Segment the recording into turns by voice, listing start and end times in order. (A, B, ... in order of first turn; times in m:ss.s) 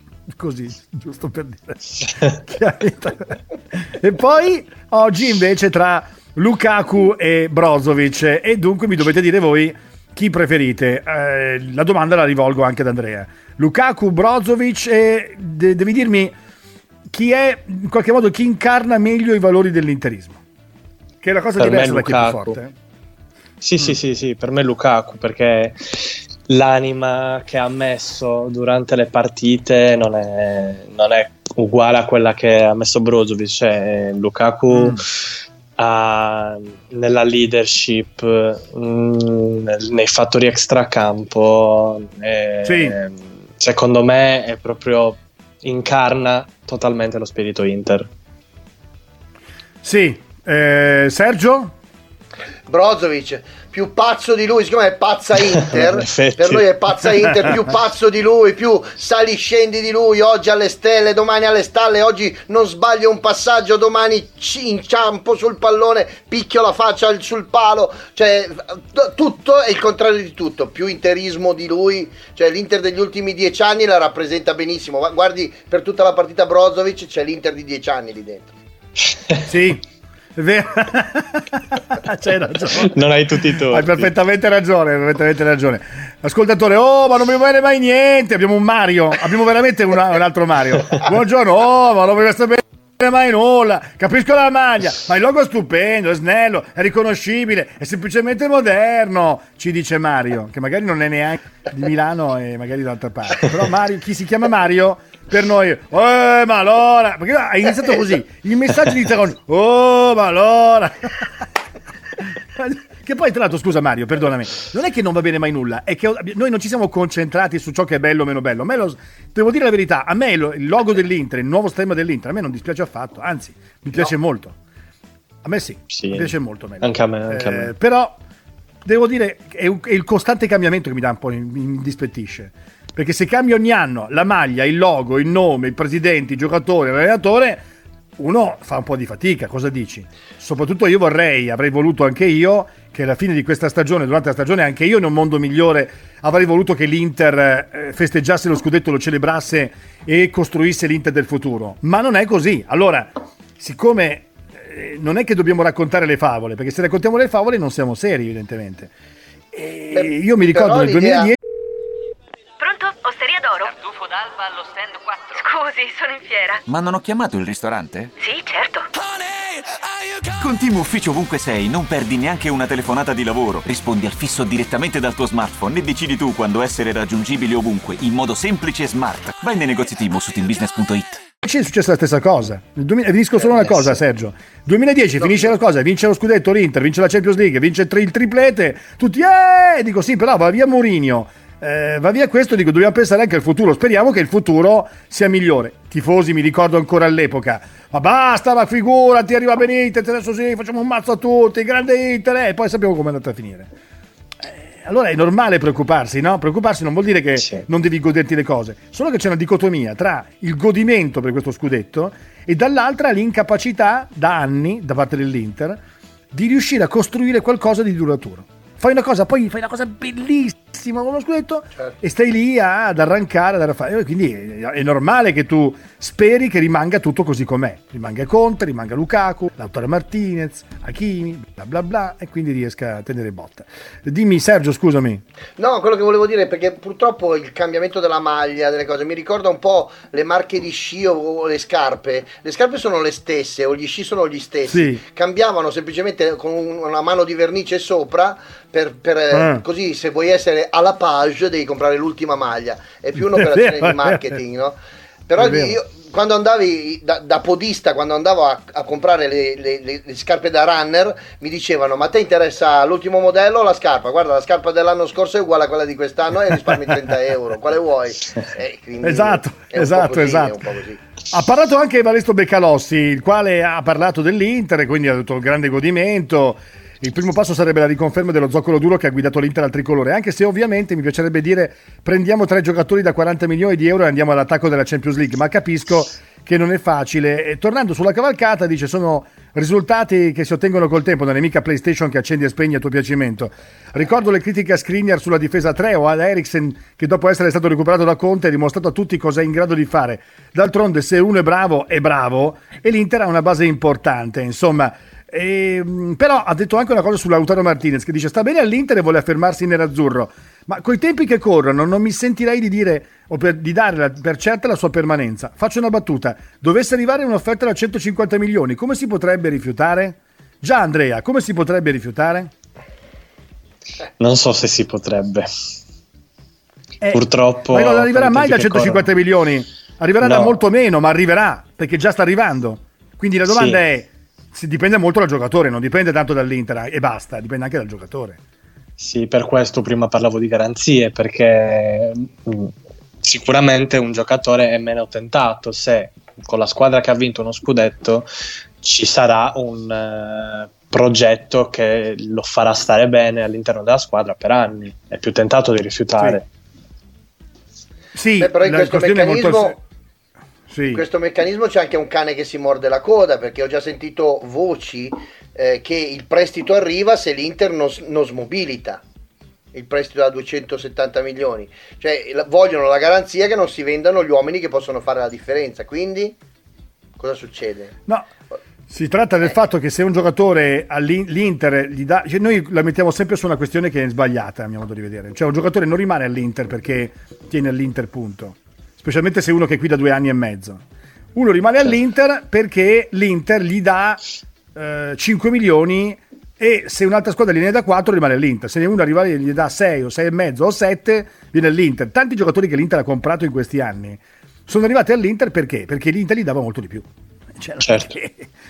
0:00.3-0:16.4 A
0:17.1-0:20.4 A
0:21.2-0:22.7 A
0:21.6-0:22.6 B
0:23.6-0:48.1 B
0:34.7-0:35.0 A
0:42.6-0:43.0 A
0:49.8-0:51.7 A
0:52.7-1:18.5 C
0:55.6-0:56.7 B
1:19.5-1:19.8 A
1:20.4-1:51.5 A
1:22.8-1:24.1 B
1:52.2-2:04.6 A
2:05.4-2:08.2 A
2:05.9-2:07.7 B
2:08.8-2:17.6 A
2:18.2-2:38.9 A
2:39.5-2:41.4 A
2:39.9-2:41.3 C
2:42.6-2:46.6 D
2:46.7-2:48.1 E
2:48.2-2:48.9 D
2:50.4-3:01.2 E
3:01.4-3:23.7 A
3:24.4-3:35.8 A
3:27.4-3:27.7 B
3:36.3-3:55.2 A
3:55.6-4:14.8 C
4:04.7-4:05.0 A
4:09.3-4:09.6 A
4:13.2-4:14.4 A
4:15.3-4:31.0 C
4:15.4-4:15.8 A
4:29.0-4:30.6 A
4:31.3-5:22.5 A
5:24.2-5:25.5 B
5:27.0-5:38.4 A
5:27.1-5:29.1 B
5:30.2-5:30.6 B
5:33.5-5:33.8 B
5:39.0-5:48.3 B
5:48.8-5:56.5 B
5:58.1-5:59.8 A
5:58.4-5:59.8 C
6:00.7-6:01.0 A
6:00.9-6:09.0 C
6:09.7-6:16.4 C
6:17.2-6:18.0 C
6:18.9-6:30.8 A
6:31.4-6:34.2 A
6:34.8-6:48.5 A
6:47.8-6:48.1 B